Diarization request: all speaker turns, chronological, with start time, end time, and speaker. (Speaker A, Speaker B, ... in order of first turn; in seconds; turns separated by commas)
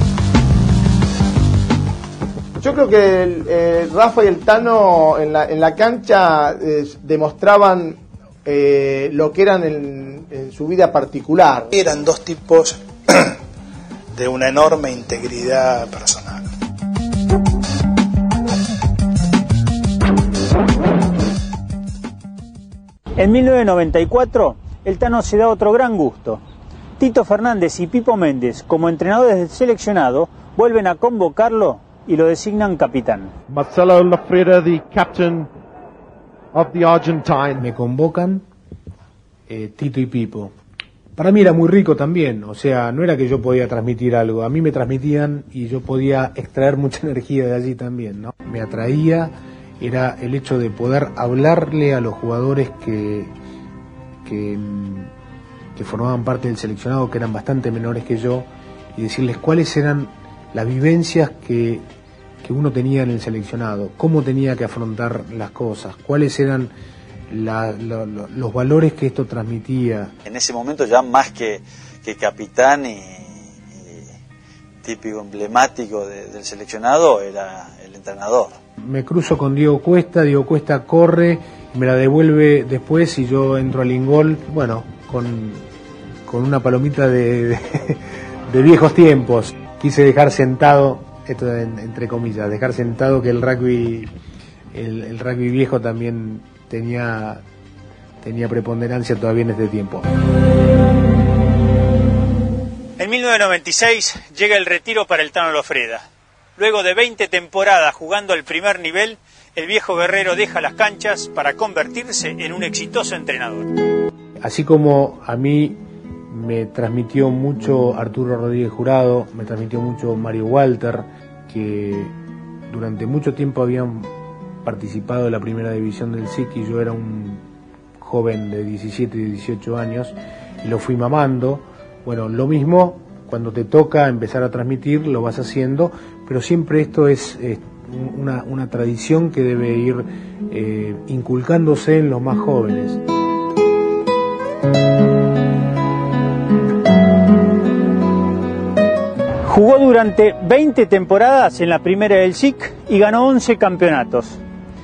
Speaker A: 2.6-11.7, Speaker B: 11.7-13.4, Speaker B: 14.1-16.5, Speaker C: 23.2-26.4, Speaker C: 27.0-33.3, Speaker D: 33.5-35.5, Speaker D: 36.5-37.6, Speaker E: 37.6-38.5, Speaker E: 39.5-40.5, Speaker E: 41.2-53.3, Speaker E: 54.2-55.1, Speaker E: 55.8-61.9, Speaker E: 62.4-66.7, Speaker E: 67.3-70.2, Speaker F: 70.3-74.1, Speaker F: 74.8-78.6, Speaker E: 78.8-85.7, Speaker E: 86.3-94.1, Speaker E: 94.7-97.4, Speaker E: 98.2-100.1, Speaker C: 103.0-106.0, Speaker C: 106.6-113.7, Speaker E: 114.4-122.2, Speaker E: 122.7-127.5, Speaker E: 128.0-143.0, Speaker C: 149.4-154.4